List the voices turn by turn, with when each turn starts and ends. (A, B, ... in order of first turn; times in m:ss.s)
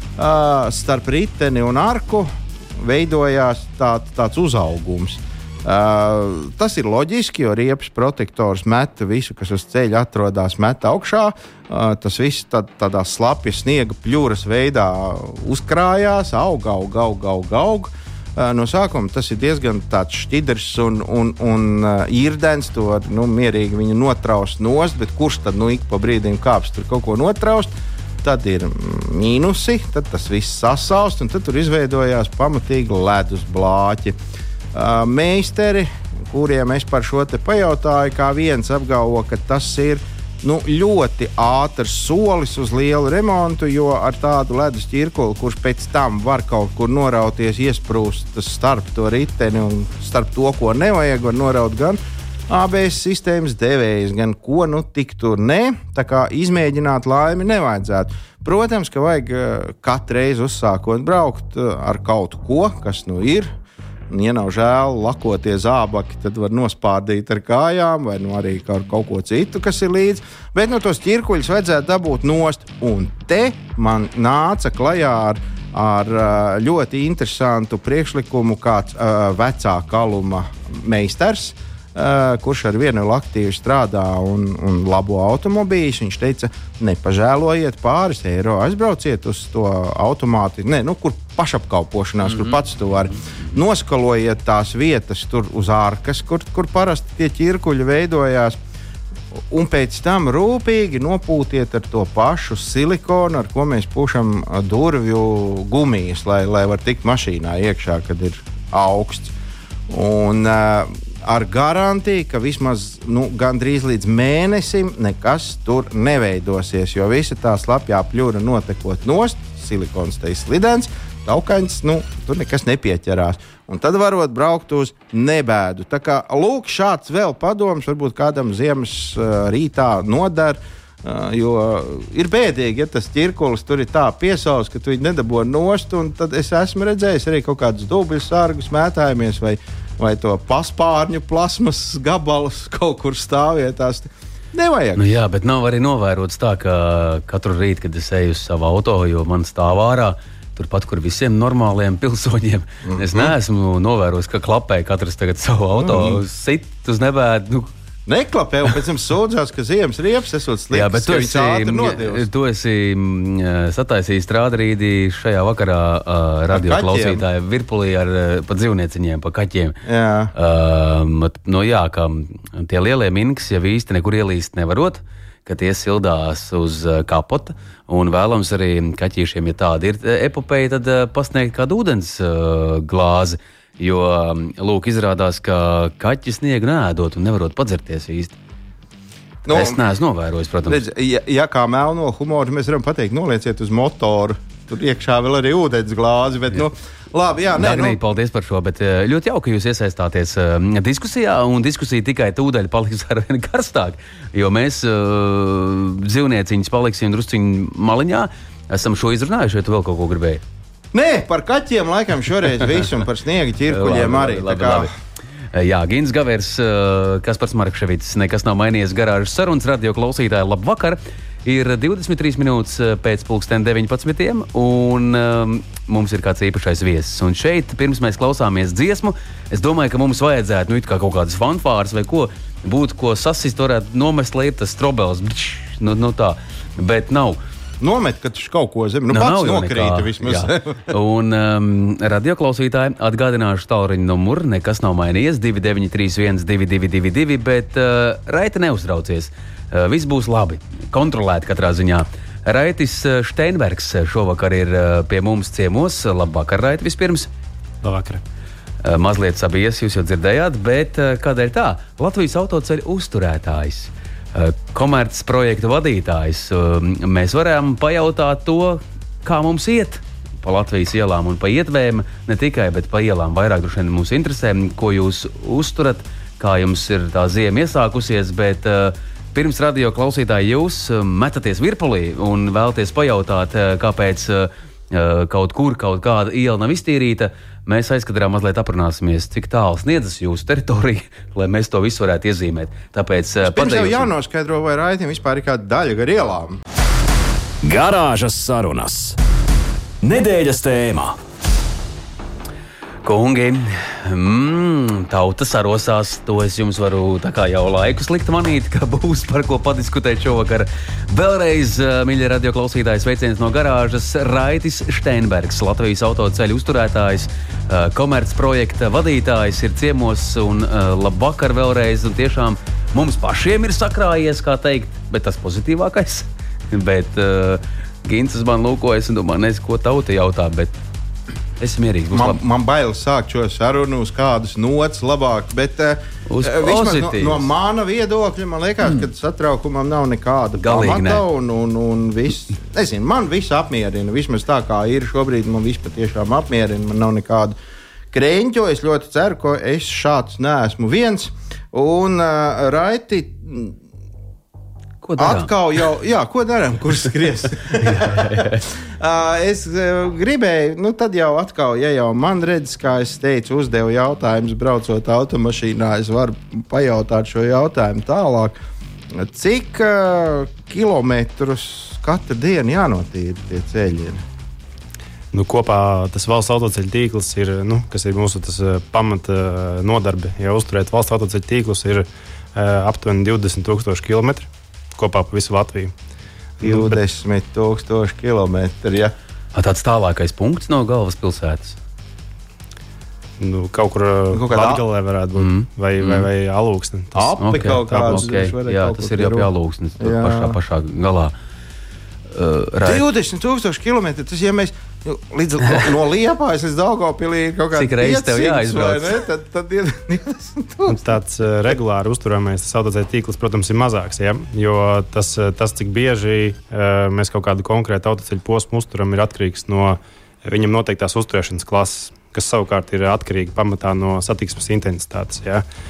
0:00.2-0:34.2 A
0:34.7-1:03.5 A
1:04.1-1:38.6 A
1:39.4-1:49.3 A
1:49.9-2:25.2 A
2:25.0-2:37.7 B
2:32.8-2:33.3 A
2:35.8-2:36.2 A
2:38.1-2:42.3 A
2:40.7-2:49.8 B
2:46.5-2:47.2 A
2:49.9-2:50.3 A
2:50.4-3:08.4 B
3:09.5-3:09.8 A
3:09.5-3:10.8 B
3:10.7-3:18.0 A
3:17.5-3:30.4 B
3:30.9-3:34.9 A
3:33.7-3:34.9 B
3:35.5-3:57.4 B
3:57.8-4:00.9 A
3:59.1-4:17.3 B
4:17.8-4:18.2 C
4:18.8-4:54.1 B
4:53.4-4:56.6 A
4:57.6-4:59.2 D
5:00.0-5:01.2 D
5:03.0-5:30.7 B
5:31.6-5:32.4 B
5:32.1-5:47.5 A
5:36.3-5:37.5 B
5:40.6-5:41.2 B
5:48.1-5:53.8 A
5:55.0-5:55.5 B
5:55.2-6:08.6 A
5:57.8-5:58.7 B
6:09.1-6:14.2 A
6:15.3-6:25.9 C
6:26.6-6:27.0 C
6:26.6-6:29.1 A
6:29.5-6:31.8 B
6:33.4-6:38.3 C
6:34.3-6:34.8 A
6:35.4-6:36.3 B
6:37.2-6:39.5 A
6:37.4-6:41.3 B
6:40.0-6:40.6 A
6:42.3-6:43.0 B
6:42.8-6:51.2 A
6:47.7-6:49.2 B
6:50.9-7:05.6 C